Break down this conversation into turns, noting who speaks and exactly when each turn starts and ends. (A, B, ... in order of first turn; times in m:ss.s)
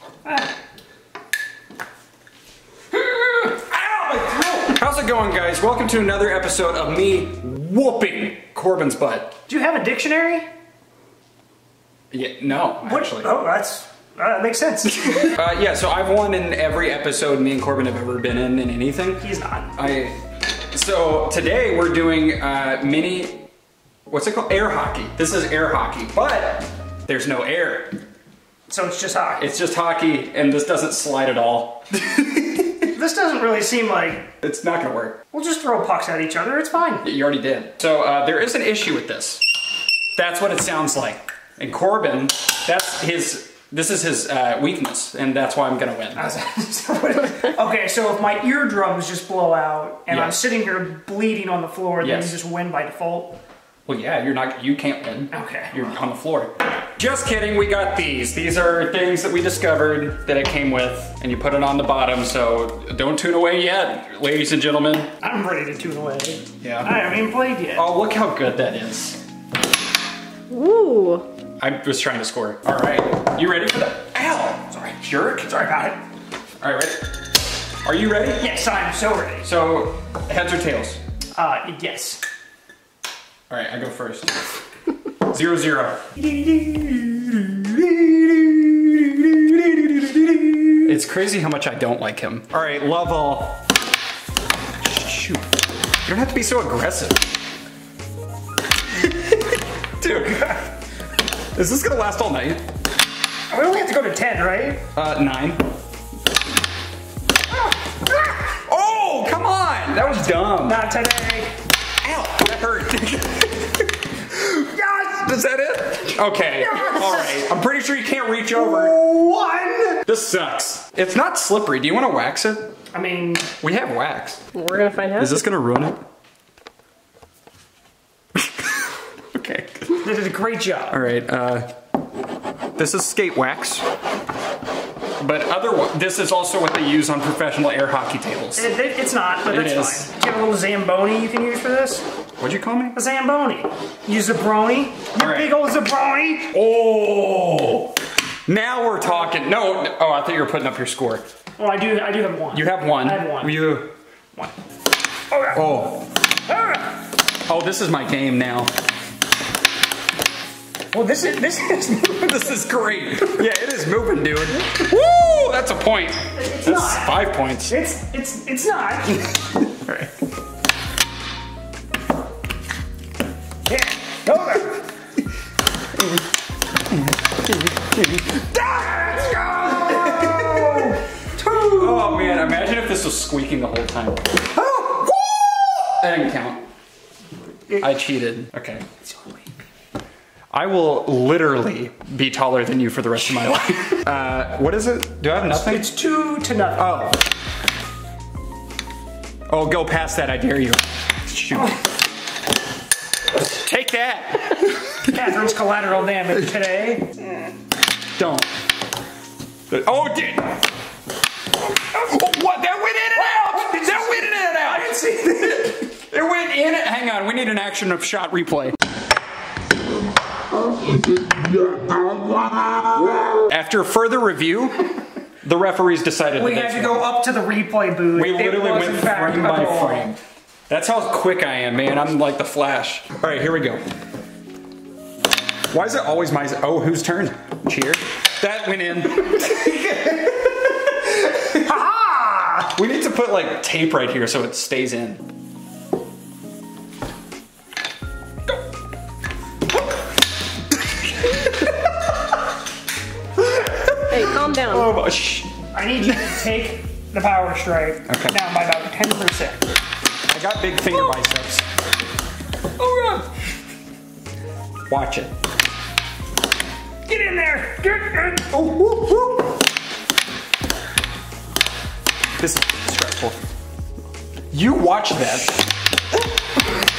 0:00.2-0:00.5 A
0:03.3-0:09.4 B
0:09.5-0:10.4 A
0:12.1-0:13.3 B
0:12.8-0:15.4 A
0:15.2-0:19.2 B
0:19.2-0:19.7 A
0:19.8-0:20.2 B
0:20.7-0:23.5 B
0:24.1-0:28.0 B
0:28.7-0:29.4 A
0:29.4-0:32.9 B
0:32.9-0:34.3 A
0:34.4-0:35.2 B
0:35.3-0:37.0 A
0:37.0-0:39.4 B
0:40.2-0:46.2 B
0:46.1-0:53.4 A
0:50.1-0:50.4 B
0:52.0-0:52.4 B
0:53.8-1:05.1 B
0:55.3-0:55.7 A
1:05.2-1:07.8 A
1:06.6-1:06.9 B
1:07.7-1:09.2 B
1:10.5-1:11.2 C
1:11.6-1:15.8 B
1:15.4-1:16.0 A
1:16.6-1:17.0 B
1:17.8-1:18.5 B
1:18.4-1:19.5 A
1:19.4-1:21.0 B
1:21.3-1:22.2 A
1:23.5-1:24.4 B
1:25.2-1:28.3 B
1:30.8-1:33.6 B
1:34.8-1:35.4 B
1:36.0-1:37.2 B
1:39.0-1:39.4 B
1:40.0-1:40.7 B
1:41.5-1:42.6 B
1:43.5-1:44.8 A
1:44.9-1:45.6 B
1:48.5-1:50.8 B
1:50.0-1:51.5 A
1:52.0-1:53.8 B
1:54.3-1:59.0 B
1:54.7-1:55.1 A
1:56.6-1:57.4 A
1:58.5-2:00.0 A
2:00.0-2:02.7 B
2:02.9-2:03.5 A
2:03.6-2:04.4 B
2:04.5-2:05.4 C
2:05.2-2:06.0 B
2:08.4-2:08.8 B
2:09.3-2:10.0 B
2:10.0-2:11.0 A
2:10.9-2:11.7 B
2:12.8-2:13.8 B
2:15.2-2:18.7 B
2:18.6-2:22.0 A
2:19.5-2:20.1 B
2:22.4-2:23.0 B
2:22.9-2:26.5 A
2:25.2-2:25.5 B
2:26.5-2:27.9 B
2:28.5-2:31.2 B
2:31.6-2:33.8 A
2:32.5-2:33.9 B
2:35.3-2:35.8 A
2:35.5-2:36.0 B
2:36.4-2:37.0 A
2:37.5-2:38.7 B
2:40.9-2:42.7 A
2:42.1-2:47.7 B
2:46.4-2:49.3 A
2:49.6-2:50.1 B
2:53.6-2:54.8 A
2:57.4-2:58.4 B
2:58.4-3:02.6 A
2:59.7-3:01.0 B
3:01.6-3:04.4 B
3:04.5-3:05.7 A
3:05.9-3:06.6 B
3:07.8-3:08.8 B
3:09.0-3:09.4 A
3:10.5-3:15.9 B
3:15.4-3:17.0 A
3:16.8-3:17.2 B
3:19.5-3:21.7 B
3:23.4-3:25.1 B
3:25.0-3:27.1 A
3:28.2-3:28.4 B
3:29.7-3:30.5 B
3:31.9-3:38.8 B
3:33.2-3:35.8 A
3:42.1-3:44.8 B
3:45.4-3:47.0 B
3:46.4-3:50.1 A
3:48.2-3:53.8 B
3:55.7-4:01.7 B
4:01.6-4:02.7 A
4:02.7-4:05.2 B
4:11.2-4:11.8 B
4:13.4-4:16.4 B
4:14.1-4:14.9 C
4:15.7-4:19.6 A
4:18.1-4:18.4 B
4:20.3-4:21.6 B
4:22.8-4:23.2 A
4:24.9-4:25.3 B
4:27.0-4:29.5 A
4:32.4-4:33.4 B
4:34.5-4:35.6 B